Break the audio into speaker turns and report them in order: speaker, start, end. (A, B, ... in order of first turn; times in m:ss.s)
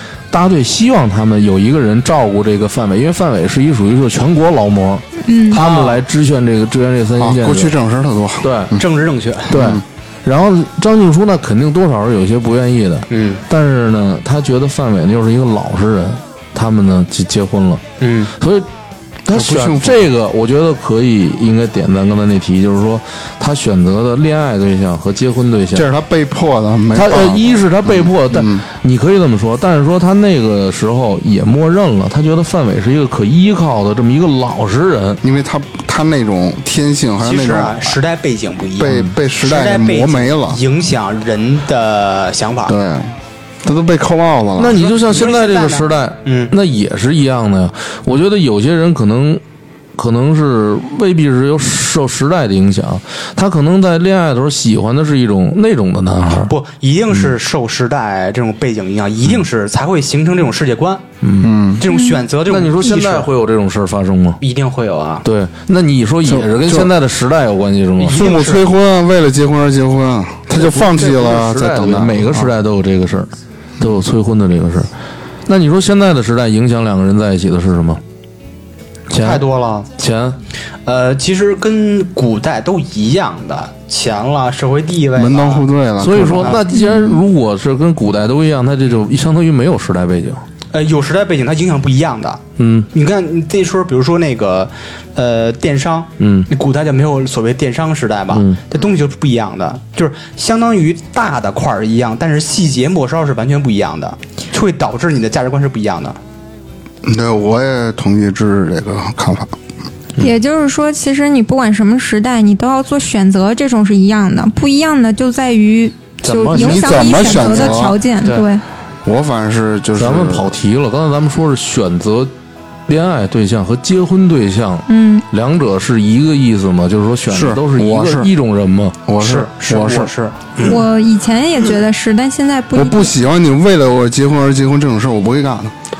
0:00.3-0:07.8 A
0:05.2-0:05.6 B
0:05.5-0:06.0 C
0:07.2-0:08.8 D
0:08.4-0:08.7 A
0:08.8-0:09.6 C
0:09.5-0:17.8 A
0:09.5-0:09.8 D
0:13.1-0:13.4 C
0:18.0-0:18.3 C
0:18.3-0:18.7 A
0:19.3-0:25.9 A
0:19.3-0:20.0 D
0:25.7-0:28.6 D
0:26.9-0:35.2 A
0:35.2-0:38.0 D
0:37.2-0:42.8 C
0:38.8-0:40.6 D
0:38.9-0:39.1 A
0:42.7-0:44.8 D
0:44.6-0:49.4 A
0:44.8-0:46.5 C
0:50.0-0:56.5 A
0:56.3-1:01.0 C
1:01.2-1:01.5 A
1:01.4-1:01.8 D
1:01.8-1:03.3 C
1:01.9-1:02.2 B
1:02.4-1:04.4 A
1:04.4-1:05.2 C
1:05.2-1:08.2 A
1:06.2-1:06.9 D
1:08.0-1:08.7 C
1:08.1-1:12.5 D
1:10.5-1:14.9 A
1:15.4-1:18.0 A
1:19.1-1:19.4 A
1:19.1-1:19.9 C
1:20.0-1:20.4 A
1:20.8-1:25.7 C
1:25.2-1:26.6 D
1:26.0-1:30.4 A
1:26.4-1:26.6 C
1:26.7-1:27.0 B
1:30.7-1:46.2 C
1:32.6-1:32.9 A
1:36.2-1:36.5 A
1:38.3-1:38.6 A
1:47.0-1:49.5 D
1:50.2-1:58.6 B
1:56.2-1:58.5 C
1:56.5-1:58.0 D
1:59.0-2:00.5 D
2:00.0-2:02.3 A
2:02.9-2:09.0 A
2:04.9-2:05.2 B
2:07.3-2:08.3 D
2:09.1-2:10.8 D
2:09.2-2:10.8 C
2:10.6-2:13.1 B
2:12.7-2:15.7 D